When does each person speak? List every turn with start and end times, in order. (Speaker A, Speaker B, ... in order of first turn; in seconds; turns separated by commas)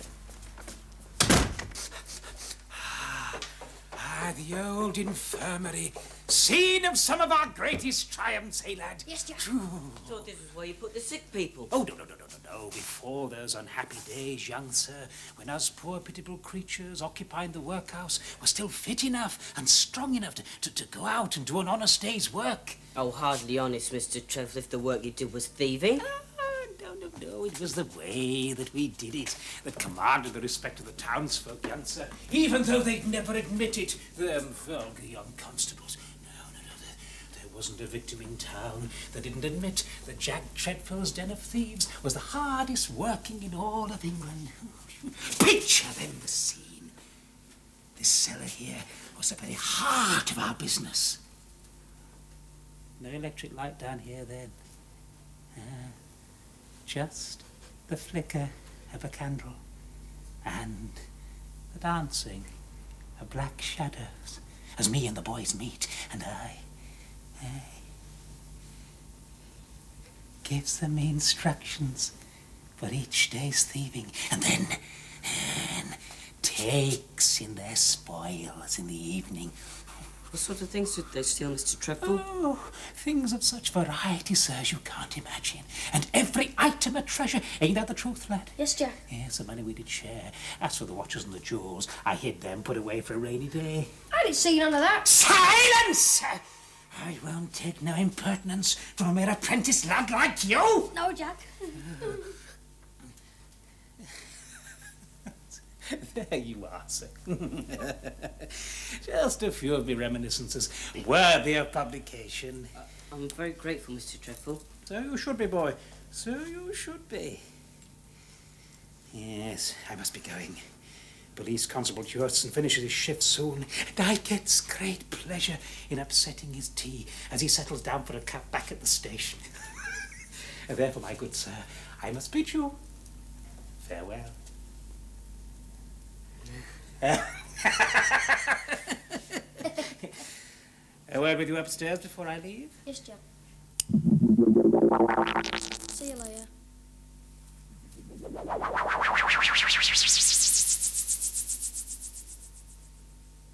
Speaker A: 2.7-10.3, Speaker B: 9.1-9.4, Speaker C: 10.0-11.7, Speaker A: 11.7-22.8, Speaker C: 22.9-26.1, Speaker A: 26.0-47.0, Speaker A: 48.0-51.2, Speaker A: 53.0-54.5, Speaker A: 55.5-56.0, Speaker A: 56.9-59.6, Speaker A: 60.4-61.1, Speaker A: 61.7-62.5, Speaker A: 63.2-66.7, Speaker A: 67.4-67.8, Speaker A: 70.4-72.2, Speaker A: 72.8-79.6, Speaker C: 80.3-82.2, Speaker A: 82.0-93.9, Speaker B: 88.6-89.0, Speaker B: 94.1-95.1, Speaker A: 95.0-101.0, Speaker B: 100.9-102.3, Speaker A: 101.8-102.3, Speaker A: 105.3-112.7, Speaker C: 112.8-114.7, Speaker A: 114.9-117.4, Speaker A: 119.1-120.7, Speaker A: 121.3-132.8, Speaker A: 133.8-134.4, Speaker A: 137.0-140.3, Speaker A: 141.1-142.8, Speaker B: 142.9-143.2, Speaker B: 145.9-146.5